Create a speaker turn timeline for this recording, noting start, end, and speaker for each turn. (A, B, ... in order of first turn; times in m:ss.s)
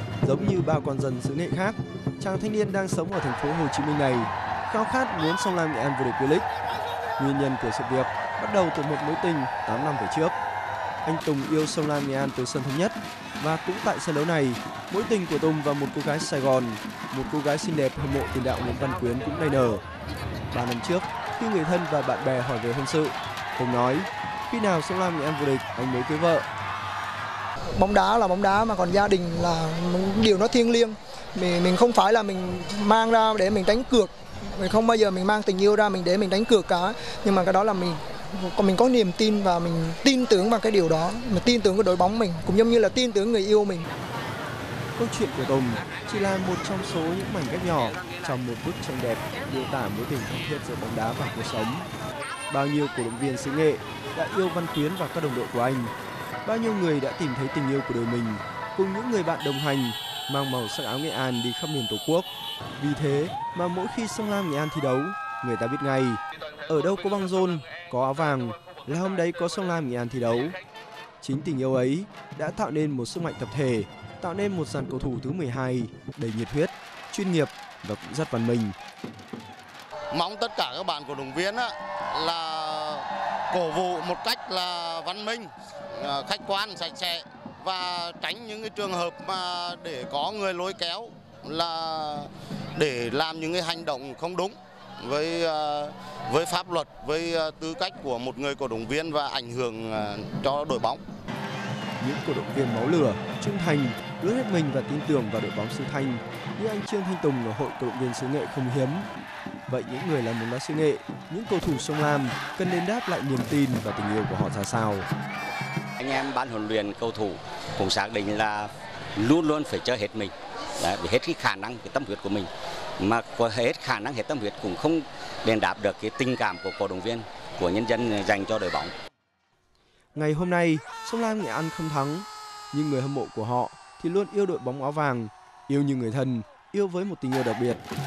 0:00.2-0:06.5 A
0:07.2-0:10.4 A
0:11.0-0:19.8 A
0:20.5-0:26.4 A
0:27.8-0:43.9 B
0:45.0-0:51.9 A
0:52.5-0:55.9 A
0:56.4-1:10.6 A
1:11.2-1:18.8 A
1:20.1-1:41.0 C
1:42.0-1:49.1 A
1:49.7-1:55.1 A
1:56.0-2:08.9 D
2:10.2-2:17.8 A